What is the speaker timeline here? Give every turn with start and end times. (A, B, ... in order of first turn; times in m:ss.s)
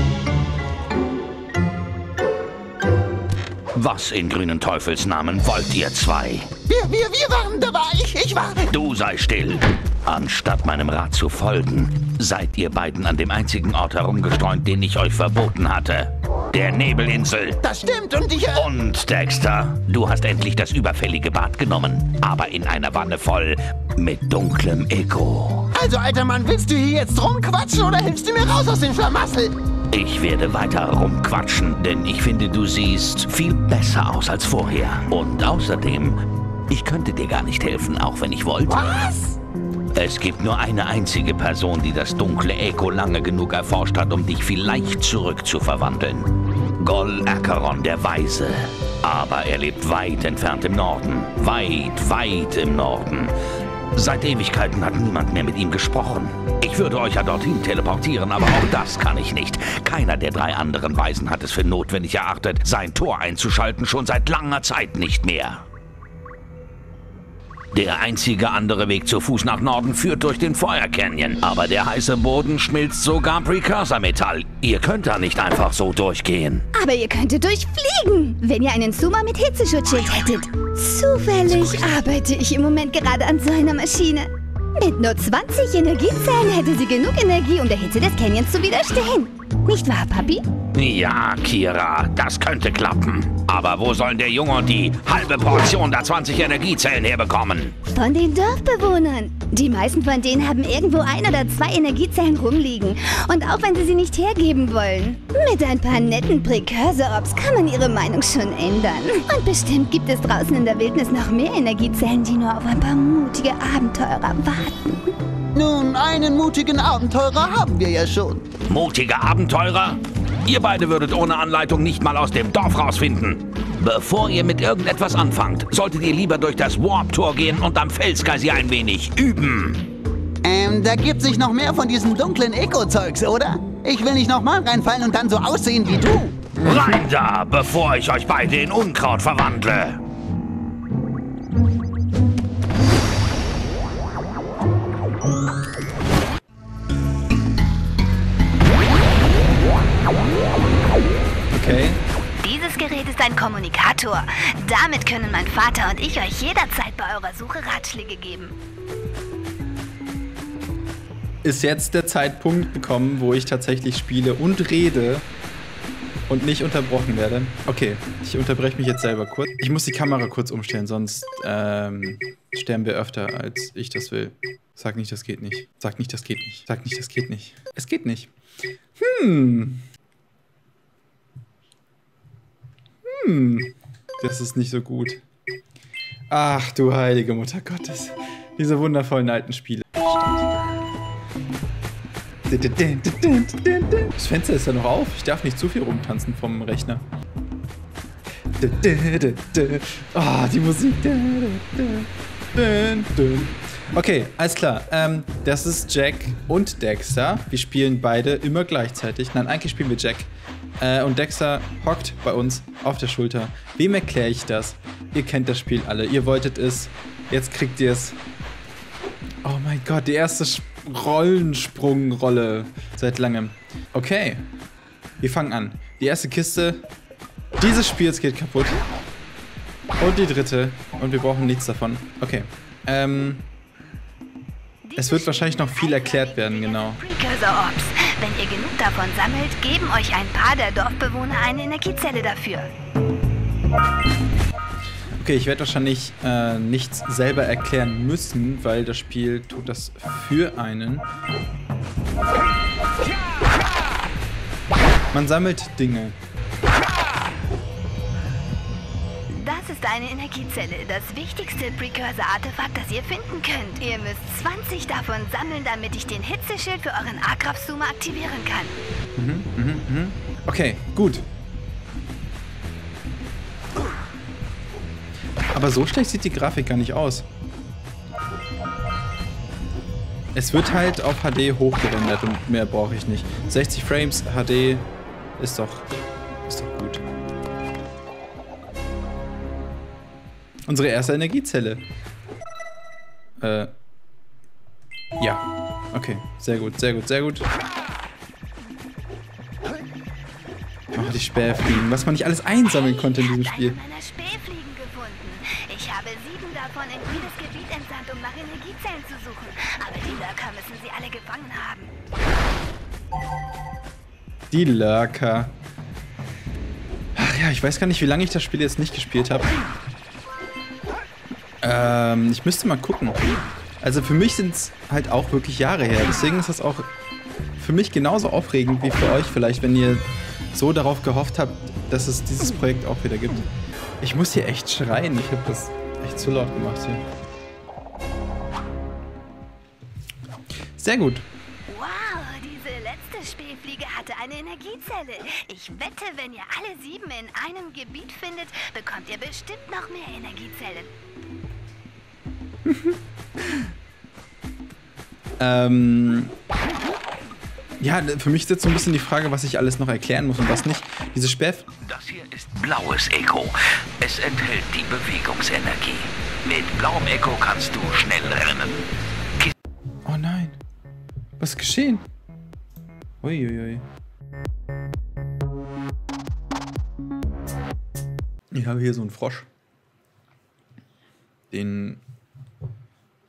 0:03.7-0:06.5 A
0:06.7-0:08.7 B
0:08.7-0:17.6 A
0:17.6-0:18.7 B
0:18.5-0:25.7 A
0:25.7-0:29.6 B
0:29.9-0:38.8 A
0:38.7-0:39.4 B
0:39.9-0:53.4 A
0:53.9-1:05.6 A
1:07.7-1:16.7 A
1:16.8-1:30.4 C
1:30.7-1:37.8 A
1:37.9-1:55.1 C
1:55.6-1:58.5 B
1:58.7-2:09.8 A
2:10.4-2:16.6 B
2:16.6-2:20.0 A
2:31.5-2:32.0 D
2:32.4-2:38.6 C
2:41.4-2:45.3 D
2:46.3-2:58.3 D
2:59.0-2:59.8 D
3:03.1-3:05.2 D
3:06.3-3:10.5 D
3:12.5-3:17.0 D
3:18.6-3:38.2 D
3:39.4-3:44.4 D
3:45.2-3:46.8 D
3:47.6-3:48.8 D
3:50.0-3:53.5 D
3:54.8-4:02.7 C
3:55.0-3:57.0 D
4:05.2-4:11.1 D
4:15.1-4:16.2 D
4:19.3-4:28.8 C
4:29.2-4:31.3 D
4:35.5-4:37.3 D
4:40.3-4:47.0 D
4:50.7-4:51.8 D
4:53.4-4:53.7 D
4:55.2-4:57.5 D
5:00.9-5:03.8 D
5:02.6-5:11.9 C
5:14.5-5:15.6 D
5:17.2-5:19.6 D
5:21.6-5:23.2 D
5:23.8-5:26.9 D
5:27.6-5:33.5 D
5:34.0-5:37.0 D
5:40.8-5:41.3 D
5:41.7-5:50.9 C
5:52.7-5:53.0 D
5:55.4-5:56.4 D
5:57.8-6:01.7 D
6:01.8-6:08.9 A
6:10.0-6:10.6 D
6:11.4-6:12.1 D
6:13.2-6:13.9 D
6:18.5-6:19.5 D
6:21.5-6:22.0 D